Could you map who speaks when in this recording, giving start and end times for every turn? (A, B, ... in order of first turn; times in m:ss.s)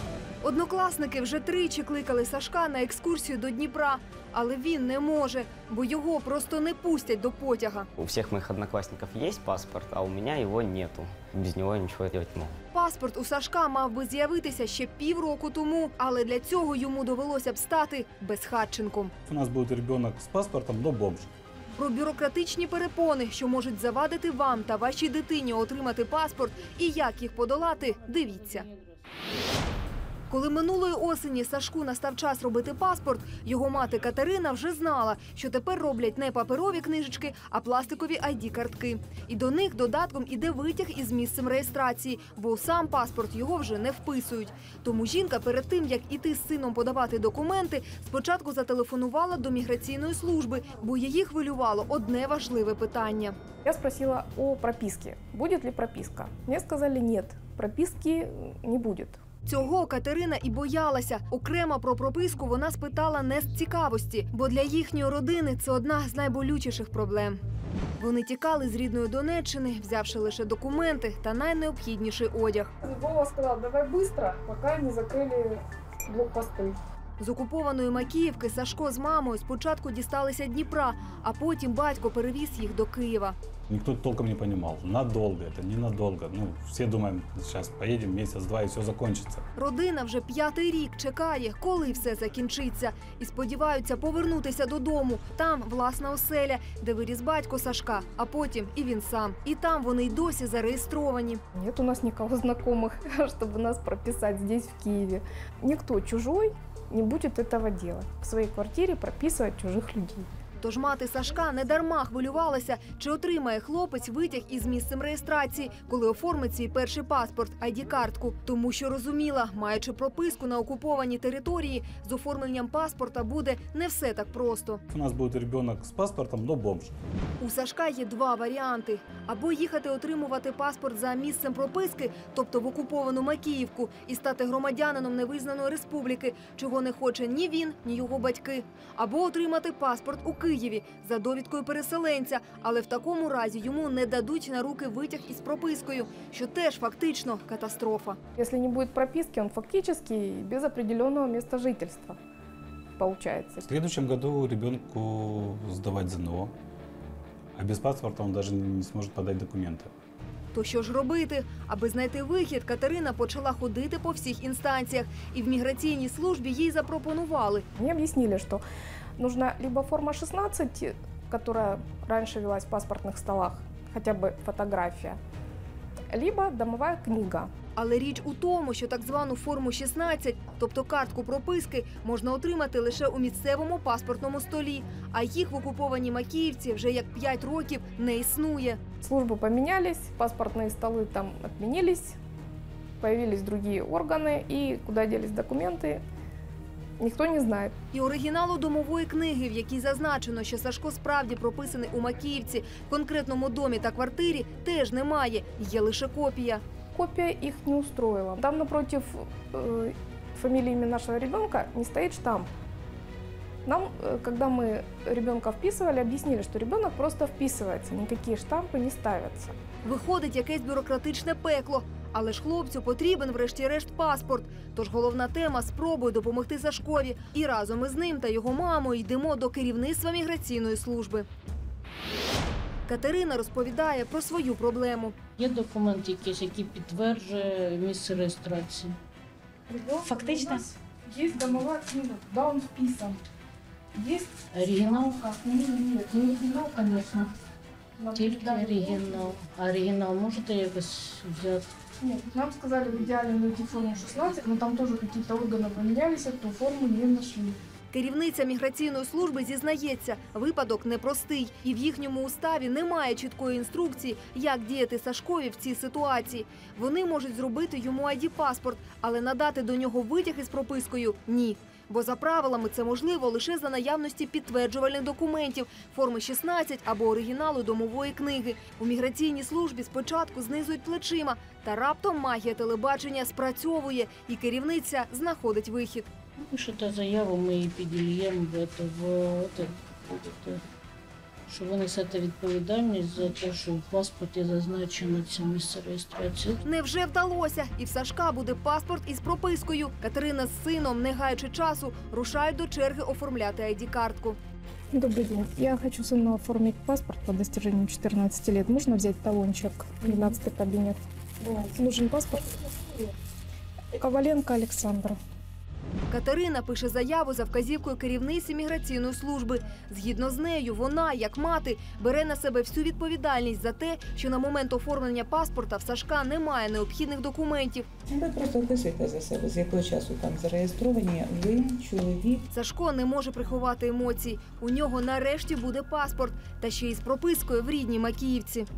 0:00.4-0:07.9 A
0:08.0-0:12.6 B
0:12.7-0:19.1 A
0:19.3-0:21.3 C
0:21.8-0:28.6 A
0:26.8-0:29.2 D
0:30.3-0:53.4 A
0:53.6-0:59.2 E
0:59.4-1:07.4 A
1:08.0-1:12.7 A
1:12.8-1:16.8 E
1:17.2-1:23.3 A
1:23.7-1:29.4 C
1:29.6-1:41.4 A
1:41.5-1:50.3 E
1:50.6-2:04.8 A
2:04.9-2:07.0 C
2:07.4-2:28.2 A
2:28.4-2:32.2 E
2:33.0-2:33.6 E
2:33.6-2:36.5 C
2:37.5-2:39.9 C
2:40.5-2:47.6 A
2:47.8-2:48.6 E
2:49.2-2:55.2 E
2:56.1-2:57.5 E
2:57.8-3:08.8 A
3:09.0-3:12.2 E
3:13.0-3:16.0 E
3:17.0-3:17.7 E
3:17.9-3:26.6 A
3:26.9-3:32.5 E
3:33.6-3:39.5 E
3:39.8-3:51.2 A
3:52.9-3:55.1 A
3:55.4-3:59.0 D
3:59.7-4:03.2 E
4:03.9-4:07.3 E
4:04.5-4:05.2 D
4:08.0-4:09.3 E
4:08.1-4:11.7 D
4:12.0-4:17.6 E
4:17.9-4:46.0 A
4:46.4-4:50.6 D
4:51.5-4:56.6 D
4:56.6-5:04.4 A
5:04.9-5:13.1 E
5:14.0-5:15.2 E
5:16.1-5:27.8 A
5:28.1-5:32.4 F
5:32.5-5:38.7 A